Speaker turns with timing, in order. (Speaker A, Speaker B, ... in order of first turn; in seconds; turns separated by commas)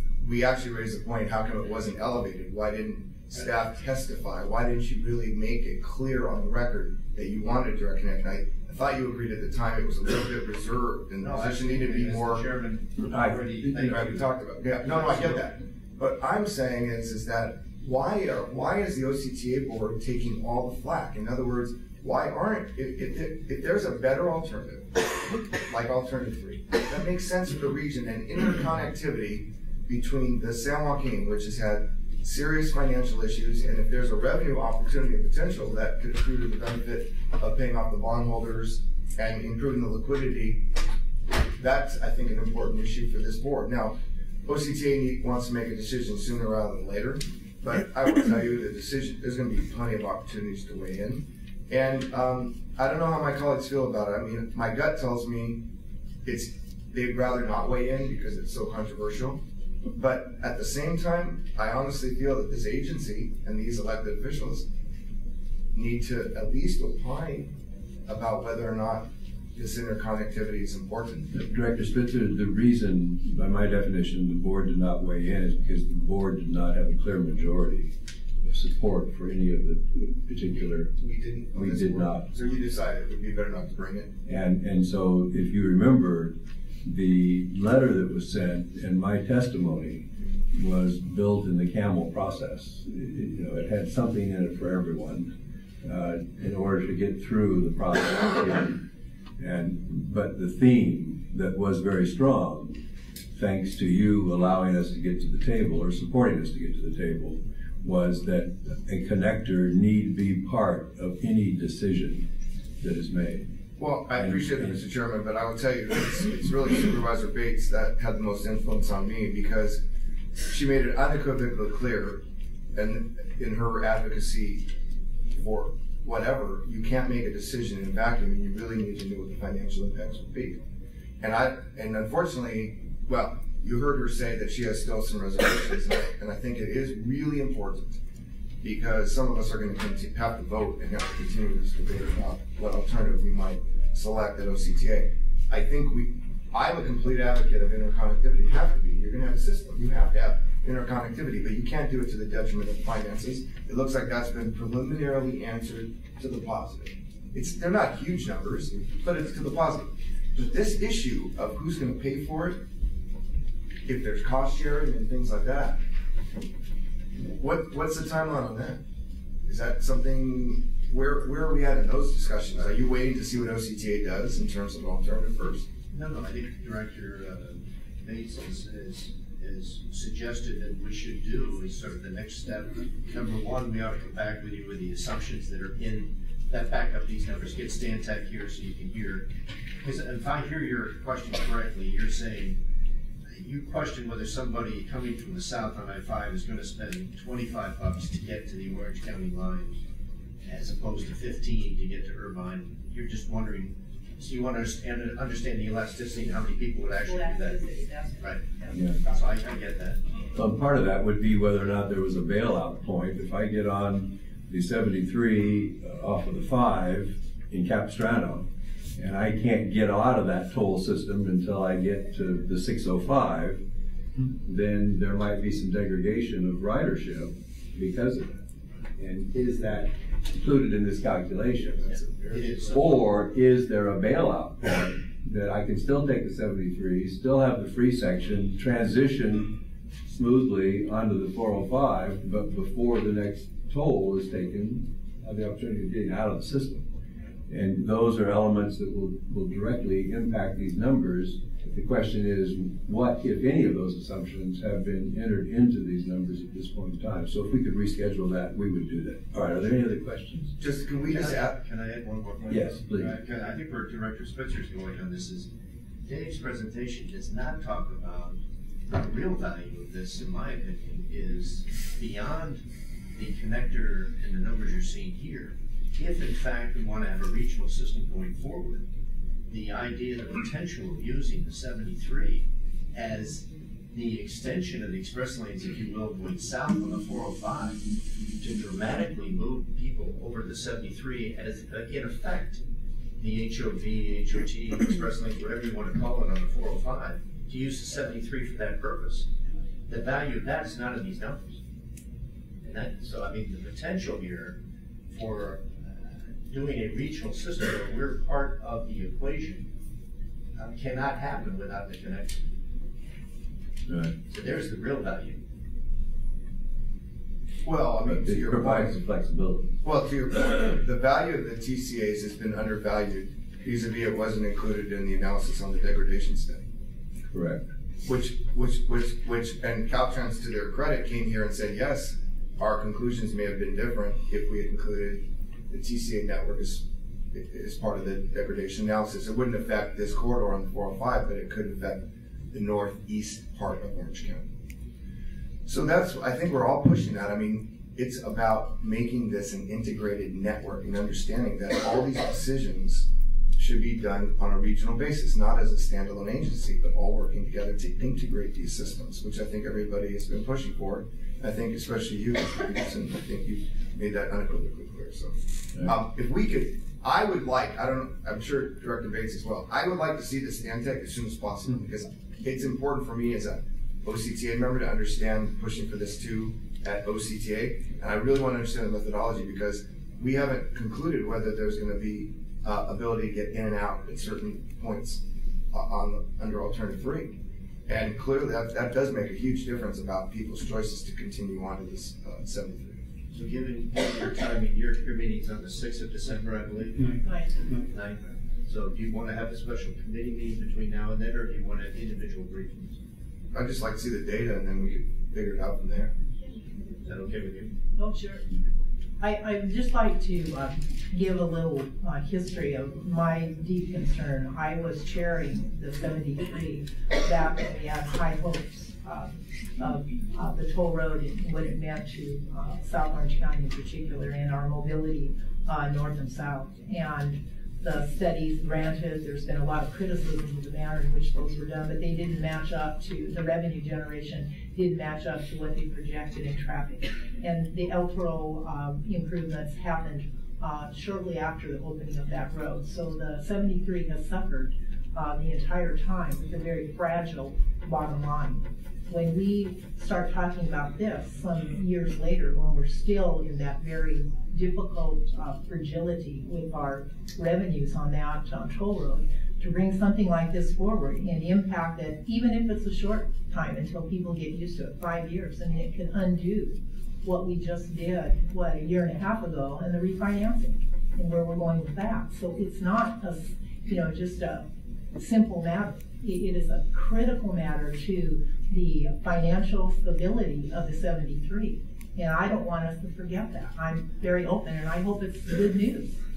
Speaker A: 0.2-12.5, Speaker B: 11.2-14.2, Speaker C: 13.1-14.3, Speaker A: 13.8-24.9, Speaker B: 14.8-15.5, Speaker A: 25.7-40.6, Speaker A: 41.6-55.6, Speaker A: 56.2-59.4, Speaker A: 59.9-64.7, Speaker A: 65.7-67.5, Speaker A: 68.1-71.3, Speaker C: 71.3-77.9, Speaker C: 78.4-80.9, Speaker A: 81.0-84.1, Speaker C: 81.5-82.3, Speaker C: 84.3-95.3, Speaker C: 95.8-98.8, Speaker C: 99.4-102.8, Speaker C: 103.3-112.3, Speaker C: 112.8-113.5, Speaker A: 113.8-119.8, Speaker C: 114.2-114.8, Speaker A: 120.5-122.2, Speaker A: 122.8-124.7, Speaker A: 125.3-130.6, Speaker A: 131.2-137.9, Speaker A: 138.6-162.6, Speaker A: 163.9-165.8, Speaker A: 167.4-168.8, Speaker A: 169.5-175.7, Speaker B: 175.9-189.3, Speaker B: 189.8-192.6, Speaker B: 193.3-199.8, Speaker B: 200.4-207.7, Speaker D: 206.9-209.3, Speaker B: 208.2-208.5, Speaker C: 208.7-209.0, Speaker B: 209.1-210.0, Speaker C: 210.3-223.6, Speaker C: 224.4-228.3, Speaker C: 229.0-239.5, Speaker B: 232.3-233.0, Speaker C: 240.1-246.9, Speaker C: 247.5-260.5, Speaker A: 260.6-261.6, Speaker B: 261.1-265.5, Speaker C: 262.5-263.1, Speaker B: 266.1-272.6, Speaker B: 273.1-278.8, Speaker B: 279.5-287.8, Speaker B: 288.4-292.6, Speaker B: 293.2-299.3, Speaker B: 299.9-301.6, Speaker B: 302.6-304.6, Speaker B: 305.1-309.7, Speaker B: 310.6-312.4, Speaker C: 313.9-314.2, Speaker B: 314.3-315.4, Speaker A: 317.6-318.9, Speaker C: 318.1-319.8, Speaker A: 319.8-326.6, Speaker C: 327.3-327.6, Speaker A: 328.1-344.5, Speaker A: 345.7-385.2, Speaker A: 385.7-387.3, Speaker A: 387.9-393.0, Speaker B: 393.3-397.2, Speaker D: 397.2-397.6, Speaker B: 397.9-403.0, Speaker A: 403.5-406.1, Speaker B: 407.0-407.7, Speaker D: 408.0-408.4, Speaker D: 409.2-486.1